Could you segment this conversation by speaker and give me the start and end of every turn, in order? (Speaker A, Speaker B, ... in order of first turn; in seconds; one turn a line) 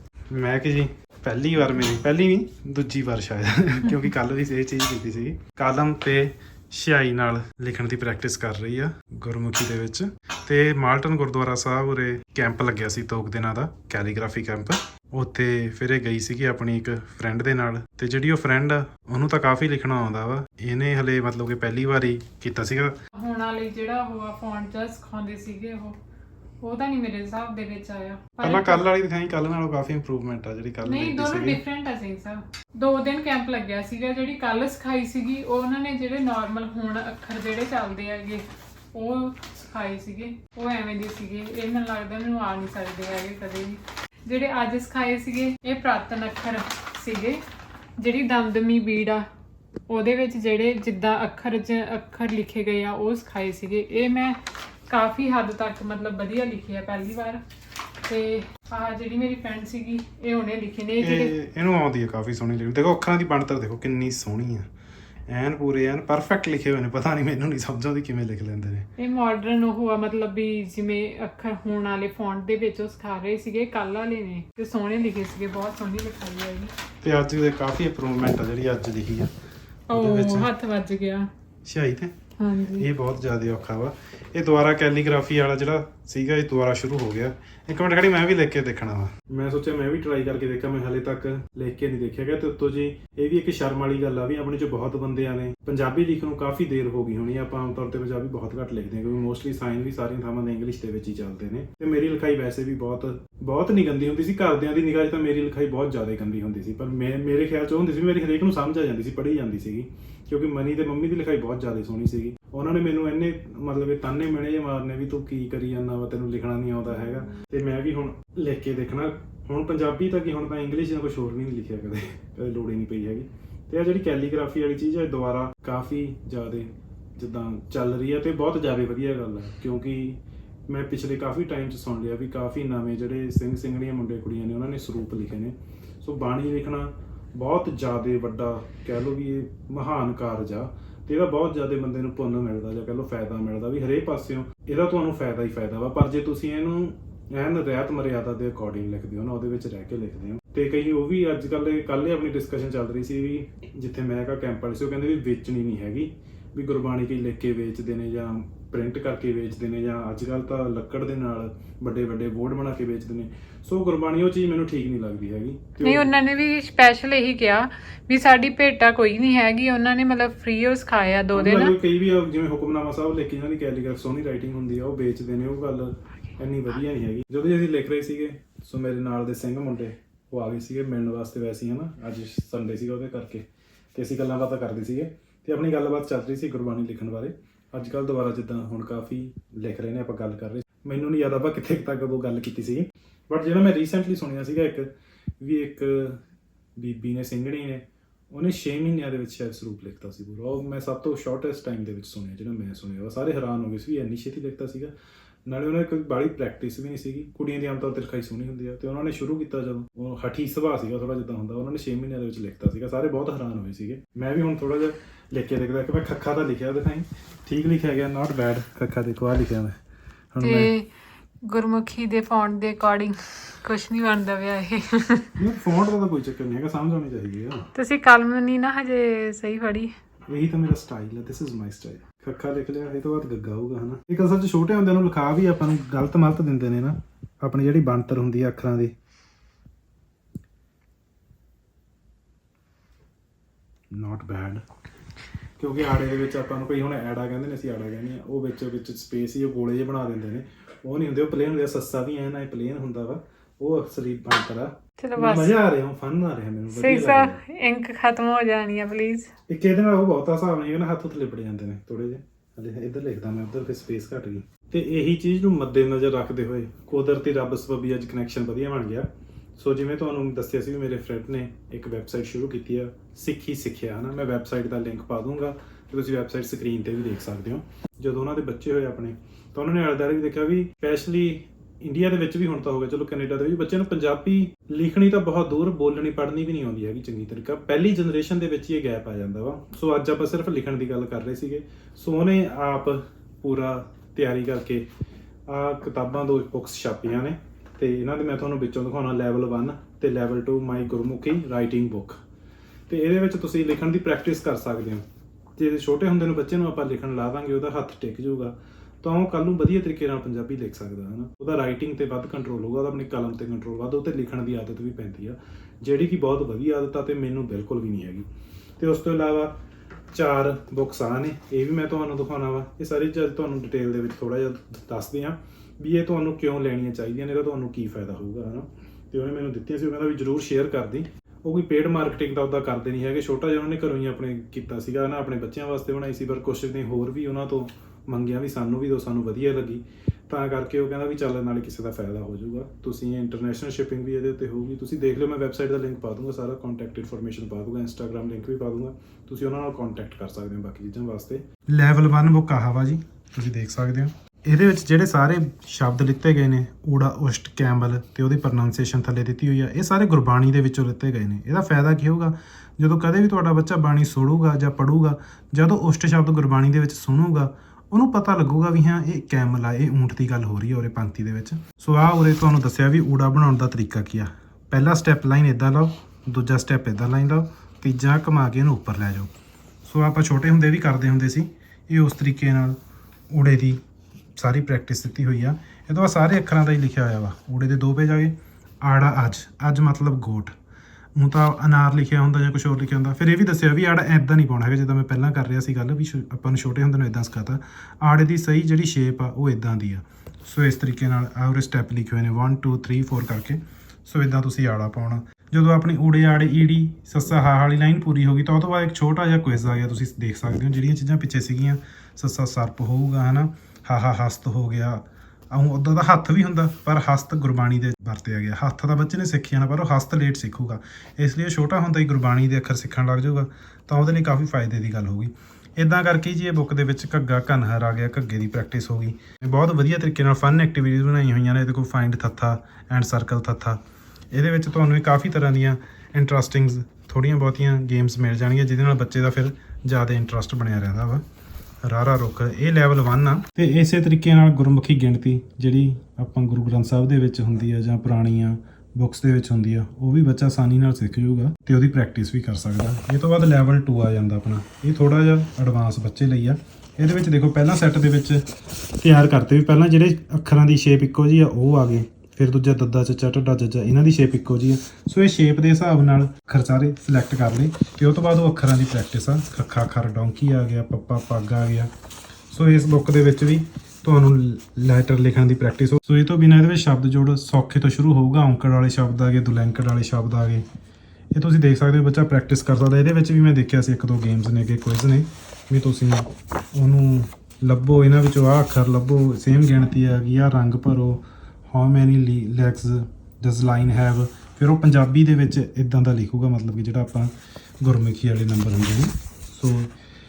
Speaker A: 0.3-22.9
Speaker B: 23.1-26.0
Speaker B: 26.6-28.9
Speaker A: 28.4-31.6
Speaker B: 30.8-47.4
Speaker B: 48.0-49.3
Speaker B: 49.9-57.4
Speaker B: 58.1-61.3
Speaker A: 61.0-64.7
Speaker A: 65.3-68.9
Speaker B: 69.0-76.7
Speaker A: 77.0-79.3
Speaker B: 79.9-81.3
Speaker A: 79.9-80.5
Speaker A: 81.6-82.2
Speaker B: 82.4-82.9
Speaker A: 82.7-166.1
Speaker B: 165.8-171.8
Speaker A: 171.3-196.2
Speaker A: 196.8-204.9
Speaker A: 205.5-219.8
Speaker A: 220.3-220.7
Speaker B: 220.4-220.9
Speaker B: 221.4-225.3
Speaker A: 225.3-227.7
Speaker B: 227.7-229.9
Speaker A: 230.3-238.9
Speaker A: 243.9-244.6
Speaker A: 245.6-257.4
Speaker B: 255.0-255.6
Speaker B: 256.7-259.3
Speaker A: 259.5-294.9
Speaker A: 295.5-302.2
Speaker A: 302.9-305.0
Speaker A: 305.6-318.3
Speaker A: 318.8-319.5
Speaker A: 320.1-379.3
Speaker A: 379.8-382.8
Speaker A: 383.3-383.8
Speaker A: 384.4-390.5
Speaker A: 391.1-433.8
Speaker A: 434.3-441.2
Speaker A: 441.8-458.4
Speaker A: 459.0-471.9
Speaker A: 472.5-480.6
Speaker A: 481.3-499.9